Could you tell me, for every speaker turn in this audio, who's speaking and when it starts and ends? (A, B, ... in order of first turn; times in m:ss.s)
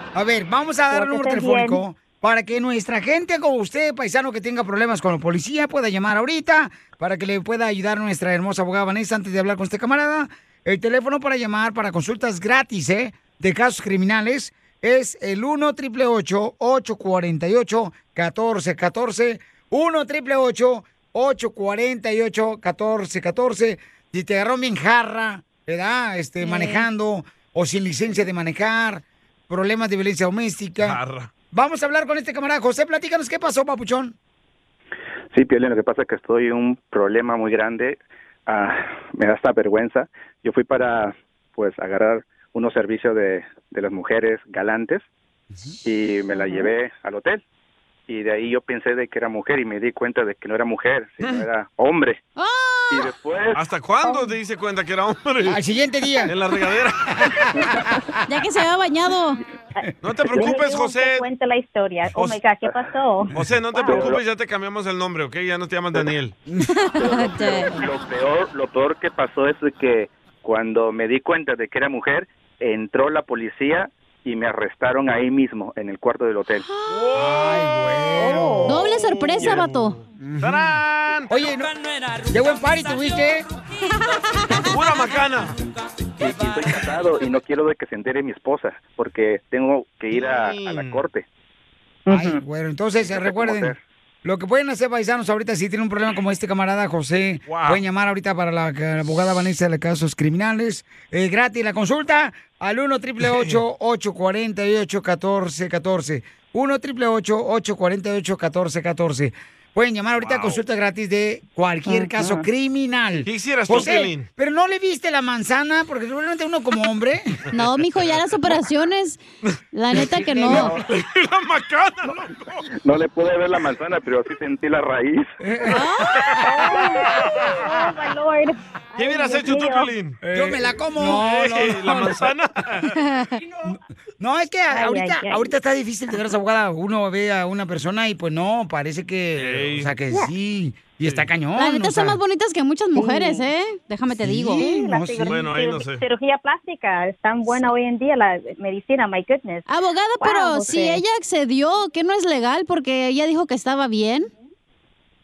0:00.2-0:31.0 A
0:00.9-0:01.8 B
0:26.4-0:26.9 C
0:30.8-0:31.3 D
0:31.5-0:34.2 A
0:35.3-0:45.0 E
0:45.8-0:47.4 E
0:48.1-0:52.2 E
0:52.4-0:53.1 C
0:52.9-0:53.6 E
0:53.6-0:55.6 D
0:55.5-0:56.3 A
0:56.3-0:57.5 D
0:57.2-0:58.0 A
0:58.3-0:59.4 C
0:59.8-1:04.1 B
1:00.0-1:01.3 D
1:02.6-1:02.9 E
1:03.3-1:06.4 D
1:03.8-1:04.2 E
1:06.8-1:07.7 C
1:07.0-1:16.6 E
1:16.9-1:21.3 D
1:17.1-1:18.8 A
1:18.6-1:20.0 C
1:20.2-1:20.7 A
1:21.3-1:21.7 A
1:22.3-1:23.5 A
1:24.6-1:25.6 D
1:26.2-1:31.2 E
1:30.1-1:31.0 D
1:32.1-1:57.4 A
1:33.1-1:33.8 E
1:37.5-1:37.8 D
1:43.2-1:43.6 D
1:50.2-1:50.6 D
1:53.2-1:54.3 D
1:57.5-1:59.2 C
1:57.6-1:58.2 D
1:59.5-2:02.7 D
1:59.7-2:00.7 C
1:59.9-2:00.8 A
2:02.8-2:05.3 E
2:05.4-2:05.8 A
2:05.7-2:06.2 C
2:06.4-2:09.9 B
2:09.0-2:10.2 D
2:10.3-2:12.3 A
2:10.9-2:13.0 D
2:13.0-2:13.3 C
2:13.7-2:22.2 A
2:14.7-2:15.5 B
2:19.4-2:19.9 D
2:21.6-2:24.6 C
2:23.0-2:23.5 B
2:24.2-2:25.5 A
2:24.6-2:29.6 B
2:25.3-2:26.0 D
2:29.7-2:34.3 C
2:30.2-2:31.0 B